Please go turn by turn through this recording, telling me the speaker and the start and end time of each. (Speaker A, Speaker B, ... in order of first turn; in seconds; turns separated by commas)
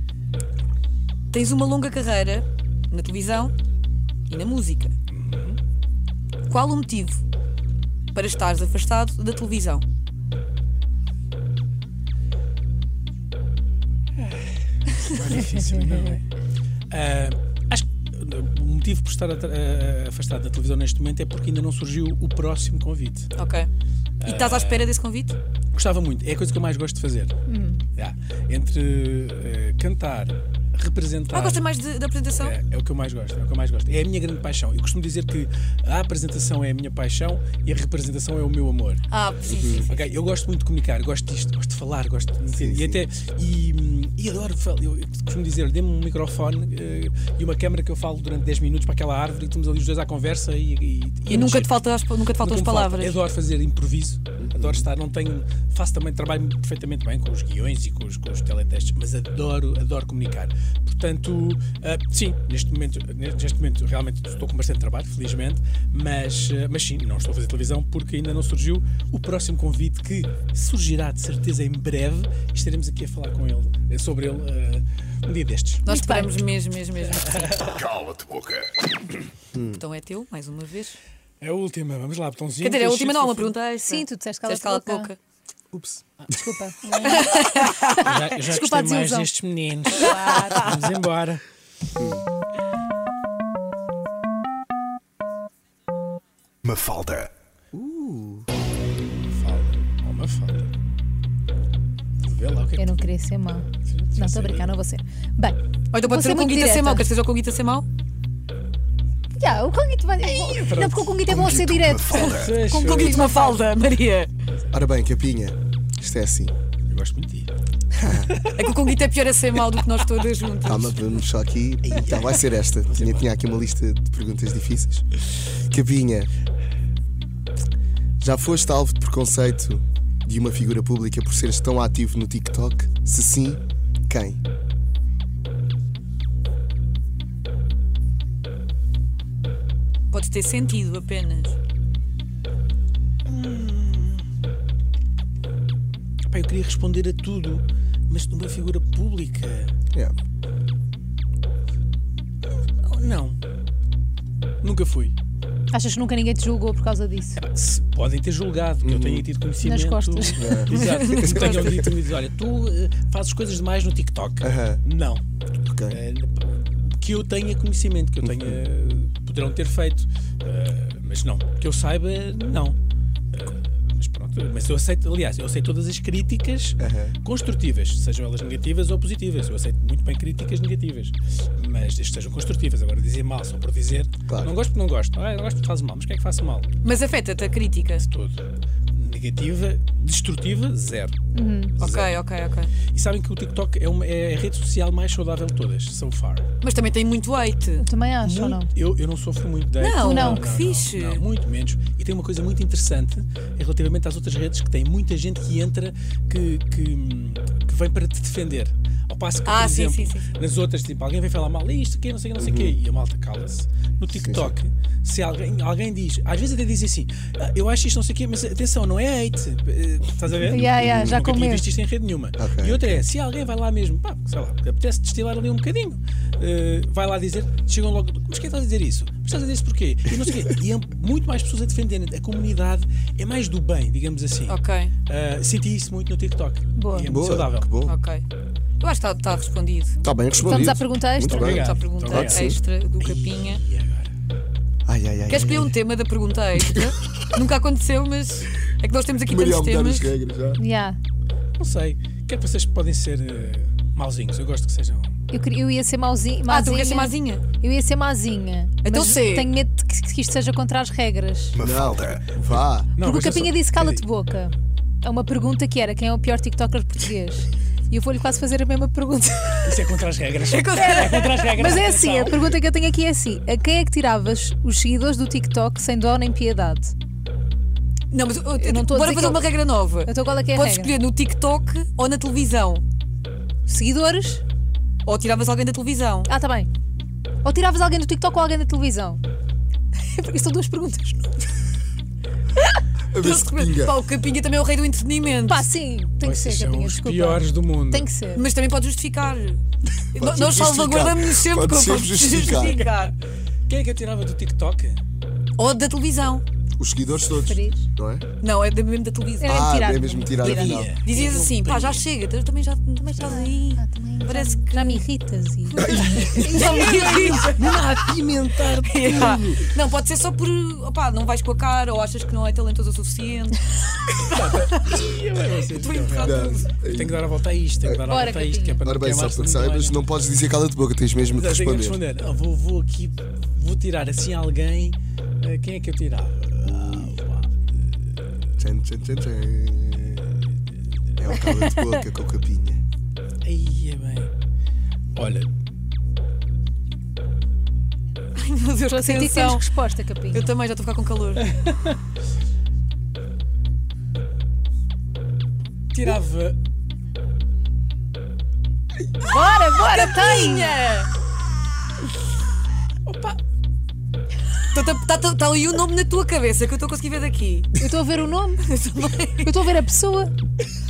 Speaker A: 1.3-3.5, Speaker A: 4.3-4.9, Speaker B: 5.1-5.6, Speaker A: 6.5-7.2, Speaker A: 8.1-9.8, Speaker B: 14.2-16.2, Speaker B: 16.9-23.3, Speaker A: 23.4-23.7, Speaker B: 24.2-24.9, Speaker A: 24.2-25.4, Speaker B: 25.7-27.3, Speaker C: 27.5-27.8, Speaker B: 27.9-31.6, Speaker A: 31.3-32.6, Speaker B: 32.4-39.0, Speaker A: 39.1-40.0, Speaker D: 39.5-39.9, Speaker B: 39.9-51.8, Speaker D: 42.5-43.0, Speaker A: 51.3-53.2, Speaker B: 52.4-75.8, Speaker D: 54.4-54.9, Speaker A: 75.8-77.7, Speaker C: 75.9-76.3, Speaker B: 77.2-77.9, Speaker E: 77.9-78.7, Speaker D: 79.5-79.8, Speaker A: 79.7-81.0, Speaker B: 81.4-83.5, Speaker A: 82.6-85.2, Speaker C: 83.8-85.1, Speaker D: 85.7-86.0, Speaker C: 86.3-89.3, Speaker A: 87.0-88.1, Speaker B: 87.9-91.4, Speaker C: 89.9-90.7, Speaker D: 92.0-92.2, Speaker E: 96.6-97.3, Speaker D: 97.7-98.5, Speaker B: 99.1-100.7, Speaker B: 102.2-103.1, Speaker C: 102.8-107.0, Speaker B: 103.8-104.7, Speaker A: 105.9-107.9, Speaker C: 109.4-113.7, Speaker B: 110.2-111.3, Speaker E: 111.2-112.6, Speaker B: 112.2-113.4, Speaker A: 112.7-114.3, Speaker B: 114.5-114.7, Speaker D: 114.7-116.5, Speaker B: 116.9-117.5, Speaker D: 118.0-118.3, Speaker B: 118.1-118.8, Speaker A: 118.5-121.0, Speaker D: 120.6-125.0, Speaker B: 121.8-123.3, Speaker D: 125.7-126.3, Speaker D: 128.2-134.4, Speaker A: 140.1-141.6, Speaker B: 143.2-144.2, Speaker B: 146.2-149.7, Speaker B: 152.8-153.4, Speaker B: 154.6-155.1, Speaker C: 155.7-157.4, Speaker B: 157.3-165.2, Speaker D: 158.8-159.3, Speaker C: 159.6-160.6, Speaker D: 160.3-161.9, Speaker A: 160.8-161.8, Speaker D: 164.4-164.8, Speaker D: 165.7-166.0, Speaker B: 165.9-172.8, Speaker D: 168.2-168.6, Speaker B: 173.3-186.7, Speaker D: 176.8-177.2, Speaker A: 186.8-188.0, Speaker B: 188.0-191.2, Speaker C: 191.3-191.8, Speaker B: 191.8-192.2, Speaker A: 191.8-192.7, Speaker B: 192.9-196.4, Speaker A: 196.6-197.8, Speaker C: 197.8-198.7, Speaker B: 198.2-237.7, Speaker A: 199.8-201.2, Speaker C: 200.0-200.4, Speaker A: 209.4-210.2, Speaker D: 212.4-212.8, Speaker D: 214.1-214.5, Speaker C: 220.4-221.7, Speaker D: 220.7-221.2, Speaker D: 222.4-223.0, Speaker A: 234.5-234.9, Speaker C: 236.8-237.1, Speaker D: 237.1-237.9, Speaker A: 237.8-238.2, Speaker A: 238.8-240.0, Speaker D: 240.0-242.6, Speaker B: 240.4-244.1, Speaker C: 240.4-241.6, Speaker A: 241.4-243.6, Speaker D: 244.8-245.7, Speaker A: 245.3-250.1, Speaker D: 249.3-250.6, Speaker C: 250.6-251.0, Speaker B: 251.6-255.1, Speaker C: 255.3-261.6, Speaker A: 256.5-257.4, Speaker A: 258.8-259.5, Speaker E: 261.5-262.2, Speaker D: 261.6-262.9, Speaker B: 261.7-264.1, Speaker C: 263.0-269.9, Speaker B: 269.6-272.6, Speaker A: 270.5-271.5, Speaker C: 271.5-276.9, Speaker A: 278.1-282.8, Speaker C: 278.6-280.9, Speaker C: 283.7-284.4, Speaker A: 285.0-286.3, Speaker C: 286.3-286.7, Speaker C: 287.4-289.2, Speaker C: 289.9-291.4, Speaker D: 293.1-293.9, Speaker A: 293.2-295.7, Speaker C: 295.5-298.4, Speaker B: 296.2-298.1, Speaker A: 298.3-299.6, Speaker A: 300.1-303.1, Speaker D: 300.2-302.8, Speaker B: 302.4-302.9, Speaker B: 303.7-305.0, Speaker A: 305.6-306.4, Speaker D: 306.8-308.2, Speaker C: 307.3-307.9, Speaker A: 308.4-309.5, Speaker C: 309.4-310.9, Speaker D: 309.5-310.9, Speaker B: 310.4-312.0, Speaker A: 311.0-315.0, Speaker C: 313.0-317.5, Speaker A: 315.7-317.8, Speaker D: 315.8-316.6, Speaker B: 316.2-319.7, Speaker A: 318.9-324.6, Speaker B: 324.2-330.0, Speaker A: 325.7-326.7, Speaker D: 326.2-327.2, Speaker C: 328.1-328.8, Speaker D: 328.8-332.0, Speaker B: 331.3-338.4, Speaker D: 336.6-337.2, Speaker D: 338.6-340.2, Speaker D: 341.2-342.8, Speaker B: 343.4-344.3, Speaker B: 345.1-345.5, Speaker A: 348.3-349.7, Speaker C: 348.9-350.5, Speaker A: 350.3-351.5, Speaker B: 351.4-352.0, Speaker B: 355.9-356.6, Speaker C: 359.2-360.8, Speaker A: 359.2-361.1, Speaker B: 363.0-363.4, Speaker A: 364.7-367.7, Speaker C: 367.8-368.7, Speaker A: 368.6-369.5, Speaker C: 369.4-370.3